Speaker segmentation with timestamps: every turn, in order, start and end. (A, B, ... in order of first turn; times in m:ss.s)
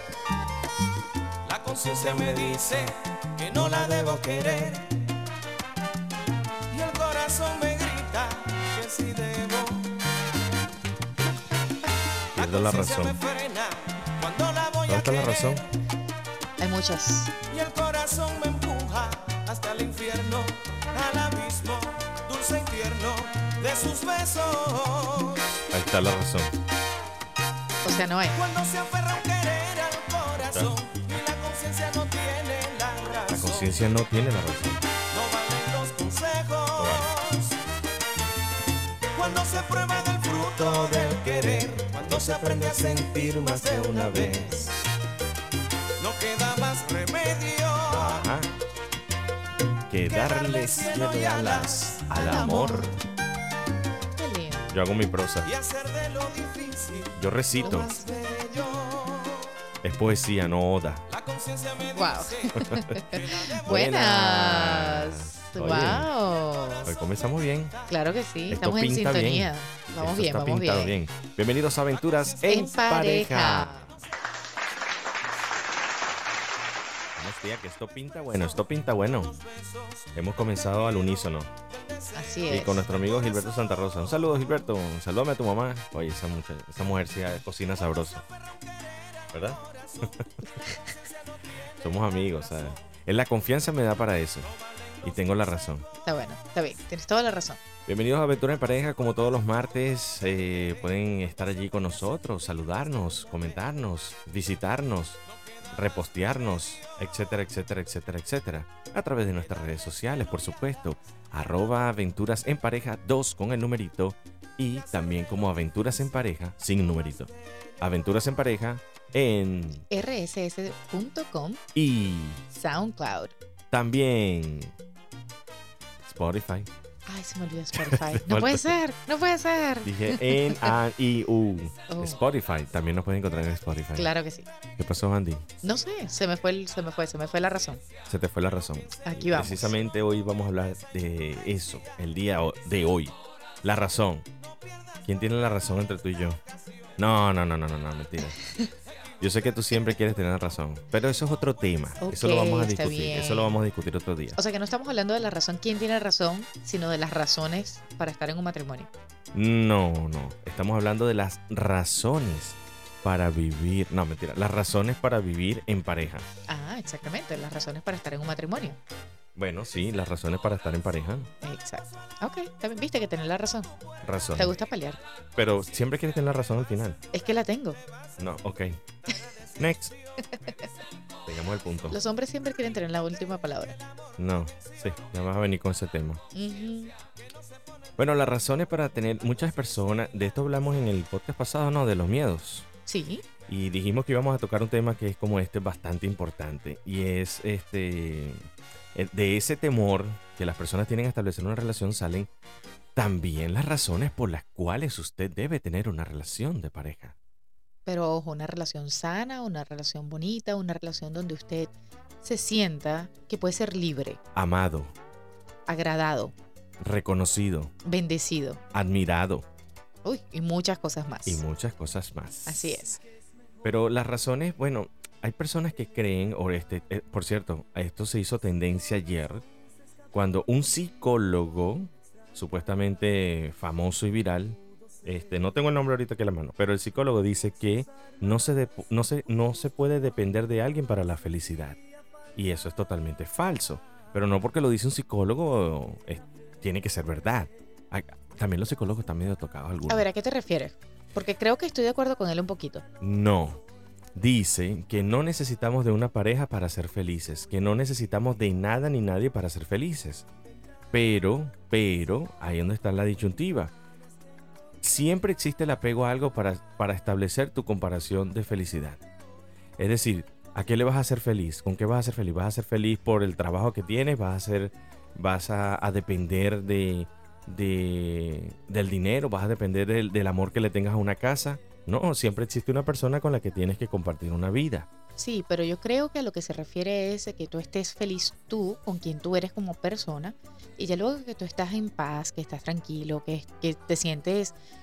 0:01.4-0:05.1 A
0:01.9-0:02.9 B
0:03.5-0:04.8 B
0:06.7-0:10.0 A
0:12.3-0:13.2 B
0:12.4-0:15.7 A
0:14.9-0:15.6 B
0:16.6-0:17.4 C
0:17.4-0:25.6 A
0:25.7-0:26.6 B
0:27.8-0:28.4 C
0:28.3-0:33.7 A
0:33.3-0:34.8 B
0:35.1-0:37.6 A
0:36.8-0:37.1 B
0:39.2-0:44.8 A
0:39.2-0:44.7 B
0:46.0-0:48.2 A
0:47.9-0:48.5 B
0:49.9-0:53.0 B
0:50.1-0:52.1 A
0:52.1-0:53.0 C
0:54.2-0:54.7 C
0:54.7-0:55.5 B
0:55.5-0:57.2 A
0:57.2-0:57.9 B
0:57.6-0:58.7 C
0:57.8-0:59.5 A
0:59.8-1:01.0 B
1:01.1-1:02.6 A
1:02.0-1:06.9 C
1:02.6-1:06.1 B
1:03.2-1:03.5 A
1:06.9-1:07.8 B
1:07.9-1:11.0 C
1:08.5-1:13.9 B
1:12.4-1:13.9 C
1:17.2-1:19.4 B
1:19.4-1:20.1 A
1:20.2-1:21.5 B
1:21.8-1:22.6 A
1:22.1-1:22.9 C
1:22.5-1:28.2 B
1:28.9-1:30.0 A
1:29.3-1:30.3 B
1:31.8-1:34.5 B
1:35.0-1:35.9 B
1:36.0-1:37.6 C
1:37.9-1:59.8 B
1:59.9-2:01.6 C
2:01.8-2:02.4 B
2:02.5-2:03.4 C
2:03.7-2:04.7 B
2:06.0-2:06.7 B
2:07.1-2:10.8 C
2:07.7-2:08.7 B
2:09.8-2:14.1 B
2:11.9-2:12.2 C
2:14.0-2:14.5 C
2:14.8-2:15.5 B
2:15.6-2:17.8 C
2:18.1-2:24.3 B
2:19.0-2:19.8 C
2:25.0-2:26.4 B
2:27.0-2:28.4 B
2:28.3-2:28.7 C
2:29.2-2:34.4 B
2:32.0-2:33.6 C
2:34.4-2:38.9 C
2:39.3-2:46.3 B
2:46.5-2:48.8 C
2:49.4-2:51.3 B
2:51.4-2:53.7 C
2:54.0-2:54.6 B
2:54.4-2:55.0 C
2:55.4-2:57.0 B
2:57.1-2:57.8 C
2:58.2-2:58.8 B
2:59.6-2:59.9 B
3:01.3-3:02.0 B
3:01.9-3:03.8 C
3:04.2-3:06.2 B
3:06.3-3:06.9 C
3:08.0-3:12.7 B
3:12.9-3:13.2 C
3:13.5-3:18.4 B
3:19.0-3:22.3 B
3:23.0-3:27.2 B
3:27.9-3:34.2 C
3:34.4-3:34.9 B
3:35.7-3:36.4 C
3:36.8-3:37.7 B
3:37.8-3:38.6 C
3:38.7-3:39.5 B
3:40.0-3:41.4 C
3:41.3-3:42.8 B
3:42.5-3:43.0 C
3:43.6-3:49.4 B
3:50.1-4:01.8 B
4:02.4-4:10.1 B
4:09.9-4:12.8 C
4:13.0-4:13.6 B
4:14.2-4:20.3 B
4:20.9-4:23.7 B
4:24.8-4:29.0 B
4:29.8-4:44.9 B
4:45.2-4:54.6 C